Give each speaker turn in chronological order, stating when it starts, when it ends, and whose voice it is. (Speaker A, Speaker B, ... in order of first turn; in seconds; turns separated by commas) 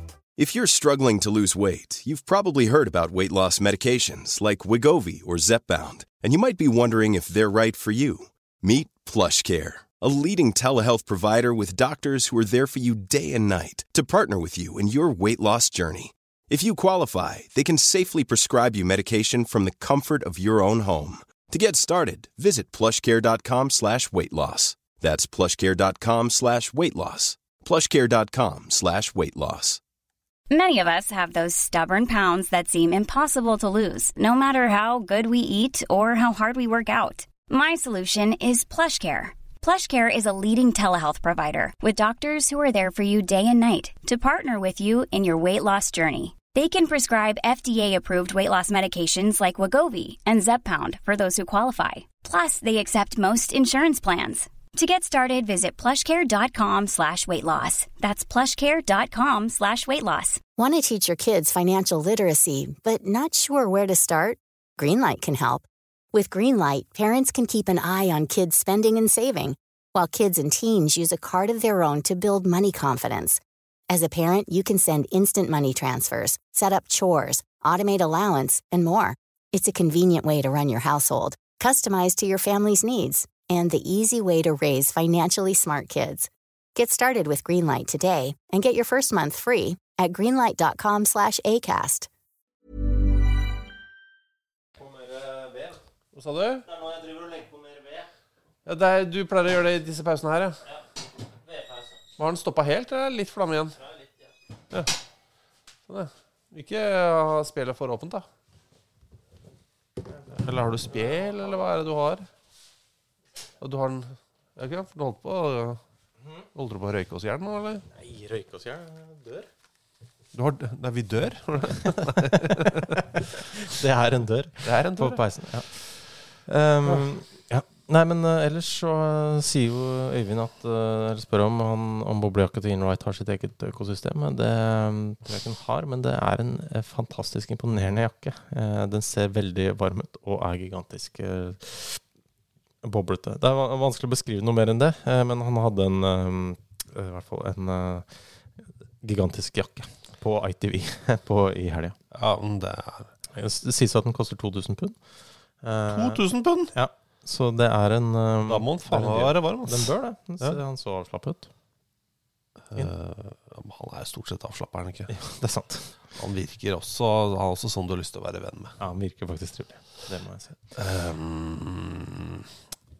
Speaker A: 0.4-29.8, Speaker B: 30.5-60.4, Speaker C: 60.6-92.1, Speaker D: 94.8-95.8, Speaker E: 96.1-96.7, Speaker D: 96.7-98.1, Speaker E: 98.7-100.6, Speaker D: 101.5-101.9, Speaker E: 102.2-103.8, Speaker E: 105.9-108.2, Speaker E: 110.3-112.3, Speaker E: 113.6-115.8, Speaker E: 116.5-117.8, Speaker D: 118.0-119.5, Speaker E: 120.3-123.1, Speaker D: 122.0-123.0, Speaker D: 123.6-142.0, Speaker E: 124.6-125.2, Speaker D: 142.8-148.1, Speaker D: 149.0-151.9, Speaker E: 152.1-153.1, Speaker D: 153.3-155.0, Speaker D: 155.6-156.2, Speaker E: 155.9-156.7, Speaker D: 156.7-161.5, Speaker E: 158.5-160.6, Speaker E: 162.7-165.1, Speaker D: 165.1-165.9, Speaker E: 166.2-168.8, Speaker D: 168.8-170.6, Speaker E: 170.8-172.5